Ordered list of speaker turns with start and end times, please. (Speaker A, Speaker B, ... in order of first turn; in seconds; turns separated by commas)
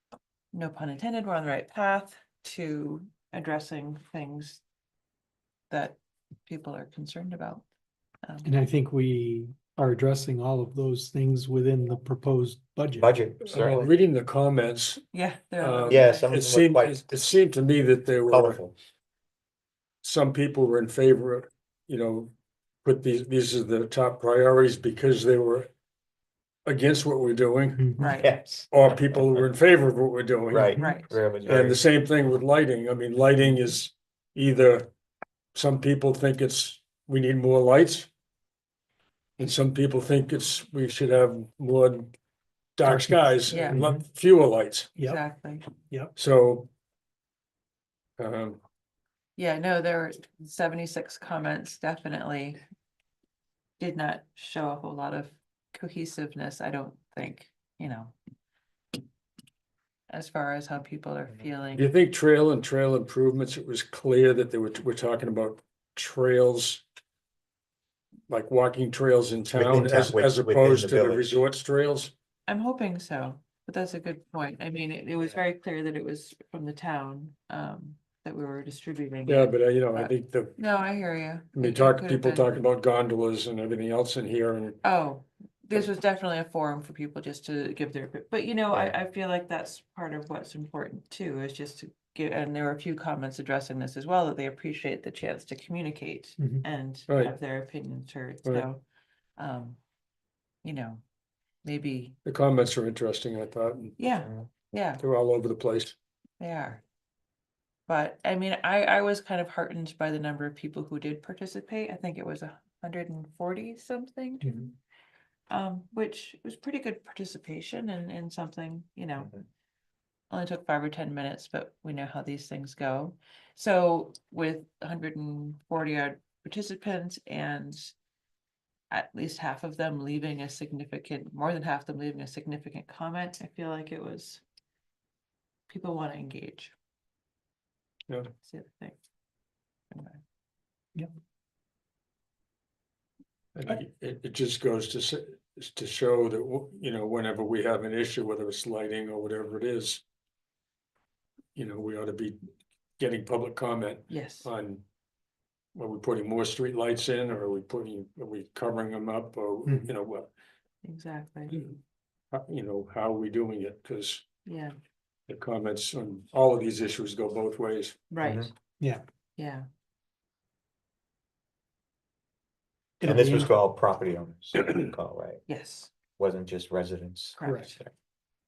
Speaker A: 0.5-4.6, Speaker A: 5.7-7.6, Speaker A: 8.2-8.5, Speaker B: 8.4-13.9, Speaker C: 13.0-13.9, Speaker D: 13.8-15.0, Speaker A: 15.1-16.3, Speaker D: 15.6-18.6, Speaker C: 15.9-17.0, Speaker C: 18.3-18.7, Speaker D: 20.0-22.3, Speaker D: 22.8-25.7, Speaker D: 26.6-27.8, Speaker A: 28.0-28.3, Speaker C: 28.0-29.5, Speaker D: 28.7-30.7, Speaker C: 30.5-31.8, Speaker A: 30.8-31.1, Speaker D: 31.4-34.9, Speaker D: 35.5-38.1, Speaker D: 39.4-42.1, Speaker D: 42.8-44.9, Speaker B: 42.8-44.0, Speaker A: 43.5-43.8, Speaker B: 45.0-45.2, Speaker A: 45.0-45.6, Speaker D: 46.2-46.7, Speaker D: 48.2-48.6, Speaker A: 49.4-52.6, Speaker A: 53.8-58.1, Speaker A: 60.1-61.9, Speaker D: 61.7-66.8, Speaker D: 68.3-72.1, Speaker C: 69.5-71.4, Speaker A: 72.5-82.5, Speaker D: 79.3-80.5, Speaker D: 81.5-84.8, Speaker A: 84.8-98.8, Speaker B: 96.4-96.6, Speaker A: 99.4-99.8, Speaker A: 100.6-101.0, Speaker A: 101.6-102.2, Speaker D: 102.2-103.9, Speaker A: 104.0-105.0, Speaker C: 104.1-104.5, Speaker D: 105.0-105.9, Speaker A: 106.4-106.8, Speaker A: 107.9-114.7, Speaker B: 114.4-114.7, Speaker A: 115.5-119.3, Speaker C: 119.2-119.4, Speaker A: 120.3-127.9, Speaker A: 128.9-134.4, Speaker A: 135.7-136.7, Speaker A: 138.4-139.0, Speaker A: 139.9-140.2, Speaker D: 143.5-150.0, Speaker D: 151.5-152.4, Speaker D: 153.0-154.8, Speaker A: 154.1-154.5, Speaker D: 155.7-160.3, Speaker B: 159.6-159.9, Speaker A: 160.8-161.6, Speaker D: 162.3-164.2, Speaker A: 164.4-164.7, Speaker D: 165.3-167.9, Speaker A: 168.1-168.5, Speaker C: 168.2-168.5, Speaker A: 169.4-169.6, Speaker B: 173.0-173.5, Speaker C: 173.0-175.4, Speaker A: 175.5-175.9, Speaker C: 176.2-177.9, Speaker A: 177.3-177.8, Speaker B: 177.4-177.7